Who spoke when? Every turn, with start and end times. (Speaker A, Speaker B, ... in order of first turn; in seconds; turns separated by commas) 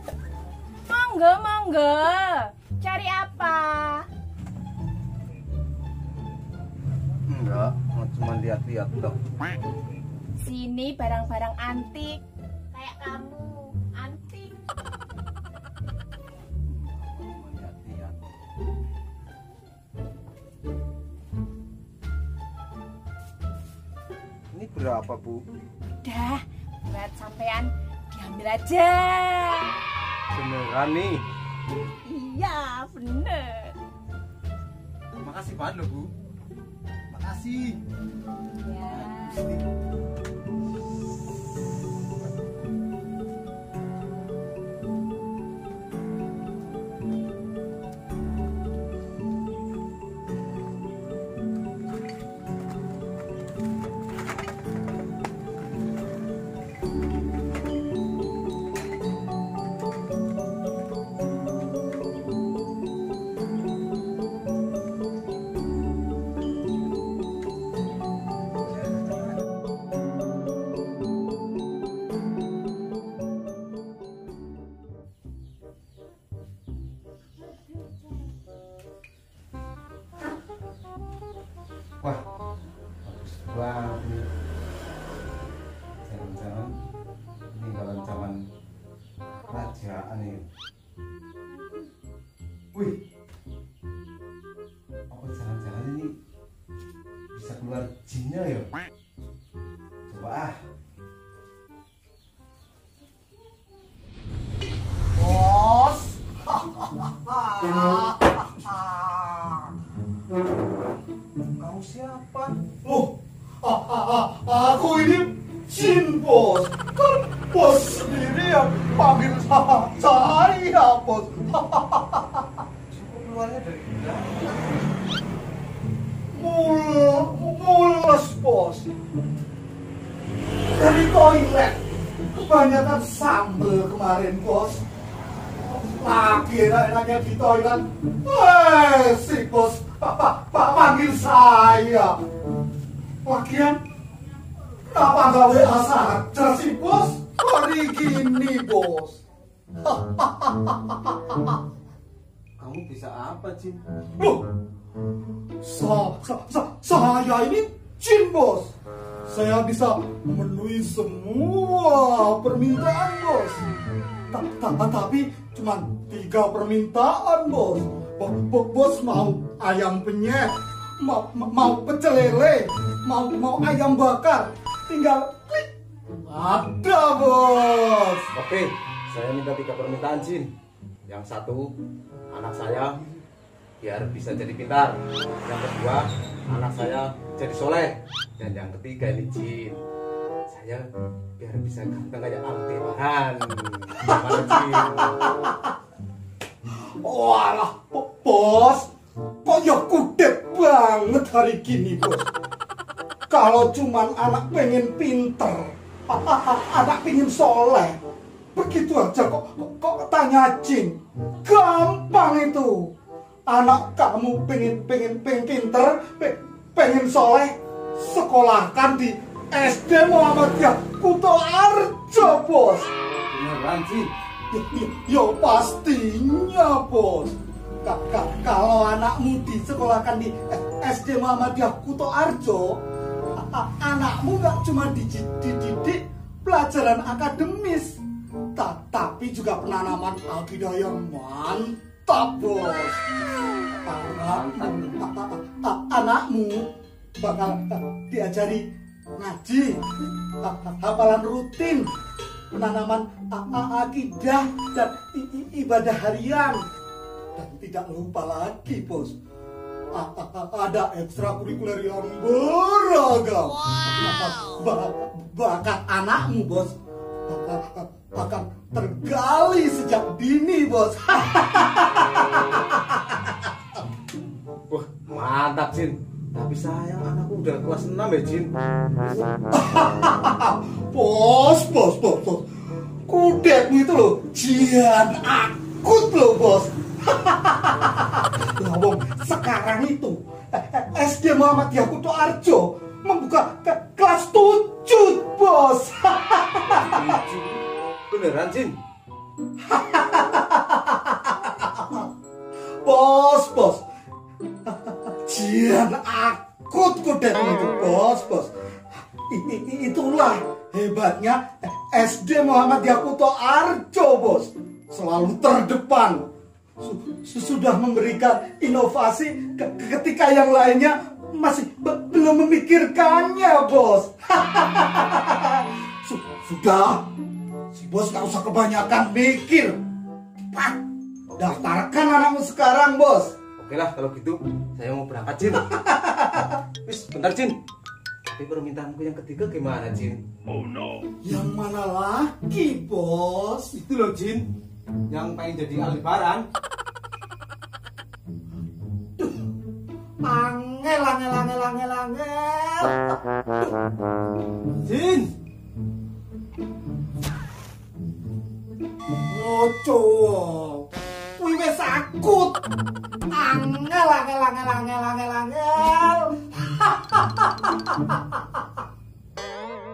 Speaker A: 0.9-4.1, Speaker B: 7.3-9.2, Speaker A: 10.4-12.2, Speaker A: 12.7-14.6, Speaker B: 16.7-18.3, Speaker B: 24.5-25.4, Speaker A: 26.0-29.7, Speaker B: 30.3-31.2, Speaker A: 32.0-33.8, Speaker B: 35.2-36.1, Speaker B: 37.1-37.8, Speaker A: 38.6-39.4, Speaker B: 38.9-39.6, Speaker B: 83.0-84.3, Speaker B: 86.0-86.7, Speaker B: 87.5-88.4, Speaker B: 89.5-90.5, Speaker B: 92.7-93.0, Speaker B: 95.1-96.2, Speaker B: 97.3-98.7, Speaker B: 100.1-100.6, Speaker C: 105.2-109.7, Speaker B: 111.5-112.6, Speaker C: 112.8-122.5, Speaker B: 122.9-124.8, Speaker C: 126.3-128.9, Speaker C: 130.8-134.8, Speaker C: 135.7-142.2, Speaker C: 143.2-143.8, Speaker C: 144.9-149.2, Speaker C: 149.8-151.6, Speaker B: 152.6-153.8, Speaker C: 154.2-154.4, Speaker C: 155.6-158.7, Speaker C: 159.3-163.7, Speaker C: 164.3-175.7, Speaker C: 176.2-178.3, Speaker B: 178.3-180.5, Speaker B: 181.1-181.7, Speaker B: 182.3-183.0, Speaker B: 183.8-189.8, Speaker B: 190.5-190.9, Speaker B: 191.4-195.1, Speaker C: 194.0-195.5, Speaker C: 197.0-198.9, Speaker C: 199.4-202.3, Speaker C: 203.3-208.0, Speaker C: 208.6-212.9, Speaker C: 213.5-222.9, Speaker B: 223.3-224.1, Speaker C: 224.5-232.8, Speaker C: 233.3-238.0, Speaker C: 238.6-243.0, Speaker C: 243.8-248.6, Speaker B: 244.2-244.9, Speaker C: 249.2-249.8, Speaker C: 250.4-251.9, Speaker C: 252.5-256.6, Speaker C: 257.4-259.1, Speaker C: 259.9-266.7, Speaker C: 267.3-273.5, Speaker B: 274.7-279.3, Speaker C: 279.5-282.4, Speaker C: 283.1-297.2, Speaker B: 296.7-298.8, Speaker C: 299.6-302.1, Speaker C: 302.8-303.8, Speaker C: 304.7-308.5, Speaker C: 309.1-316.3, Speaker C: 316.8-327.1, Speaker C: 327.7-329.8, Speaker C: 330.5-330.8, Speaker C: 331.4-333.4, Speaker B: 333.6-335.8, Speaker C: 335.7-336.5, Speaker B: 336.8-337.6, Speaker B: 338.3-341.0, Speaker C: 341.2-343.8, Speaker B: 343.8-344.4, Speaker B: 345.1-346.4, Speaker C: 349.2-349.5, Speaker C: 350.2-353.7, Speaker B: 354.7-355.3, Speaker C: 359.3-362.6, Speaker C: 363.3-368.2